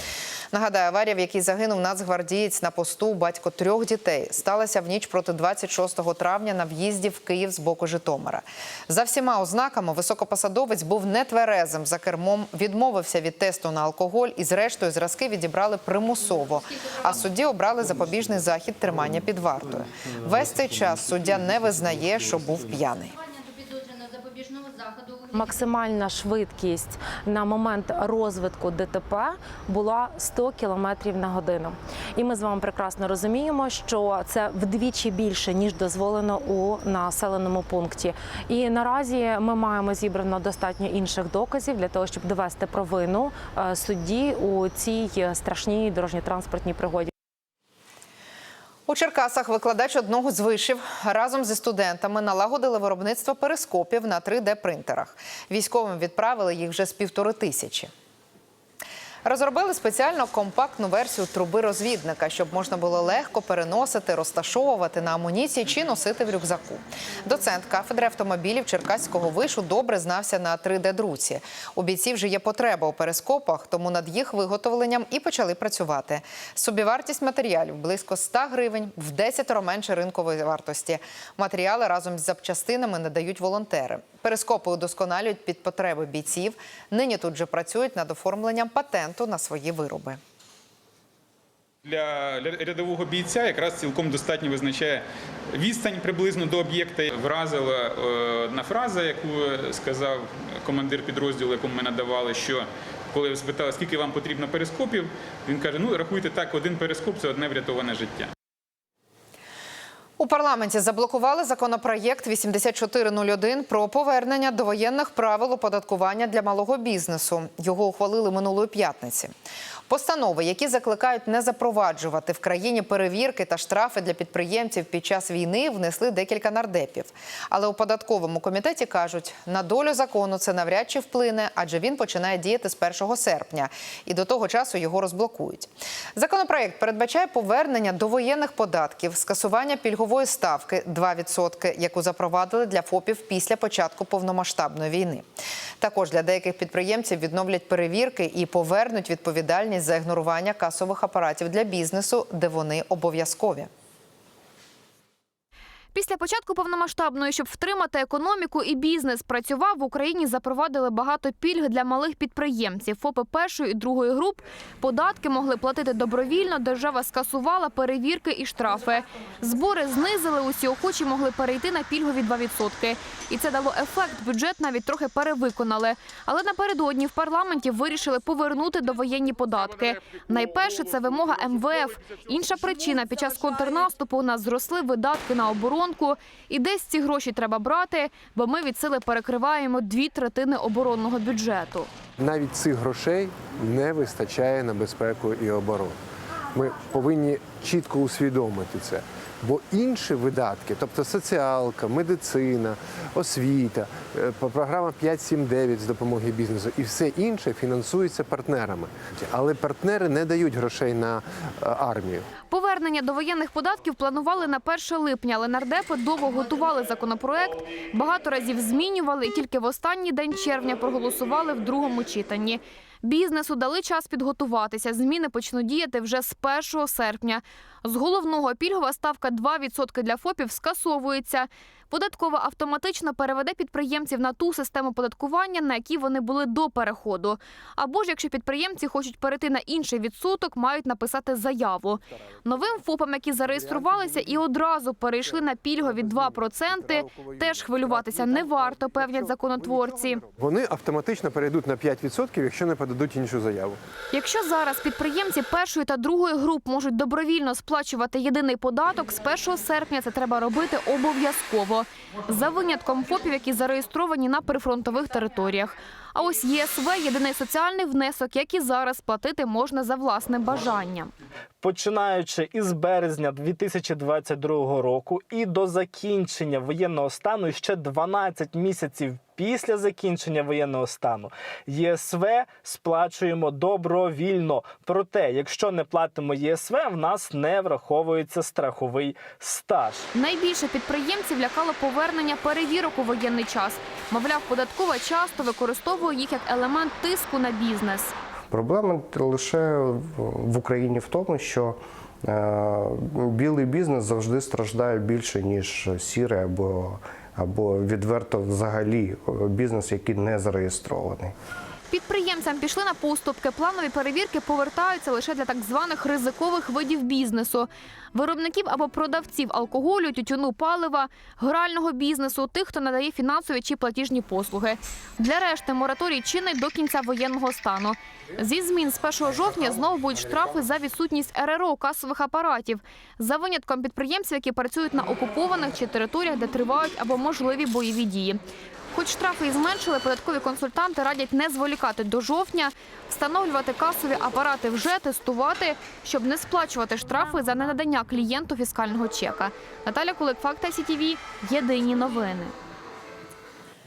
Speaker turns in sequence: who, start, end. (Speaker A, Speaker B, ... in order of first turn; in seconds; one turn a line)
Speaker A: 0.5-23.1
Speaker B: 25.3-47.1
Speaker A: 48.9-57.9
Speaker A: 59.2-90.2
Speaker C: 91.8-108.3
Speaker A: 110.2-119.3
Speaker A: 119.9-145.2
Speaker A: 145.8-153.7
Speaker D: 155.9-191.9
Speaker E: 192.2-196.0
Speaker E: 196.5-212.2
Speaker D: 212.5-250.2
Speaker E: 243.6-244.4
Speaker E: 245.3-253.8
Speaker D: 254.1-271.1
Speaker F: 271.6-290.1
Speaker D: 290.1-298.1
Speaker G: 298.5-301.8
Speaker G: 302.3-311.3
Speaker D: 311.9-338.4
Speaker D: 338.9-352.5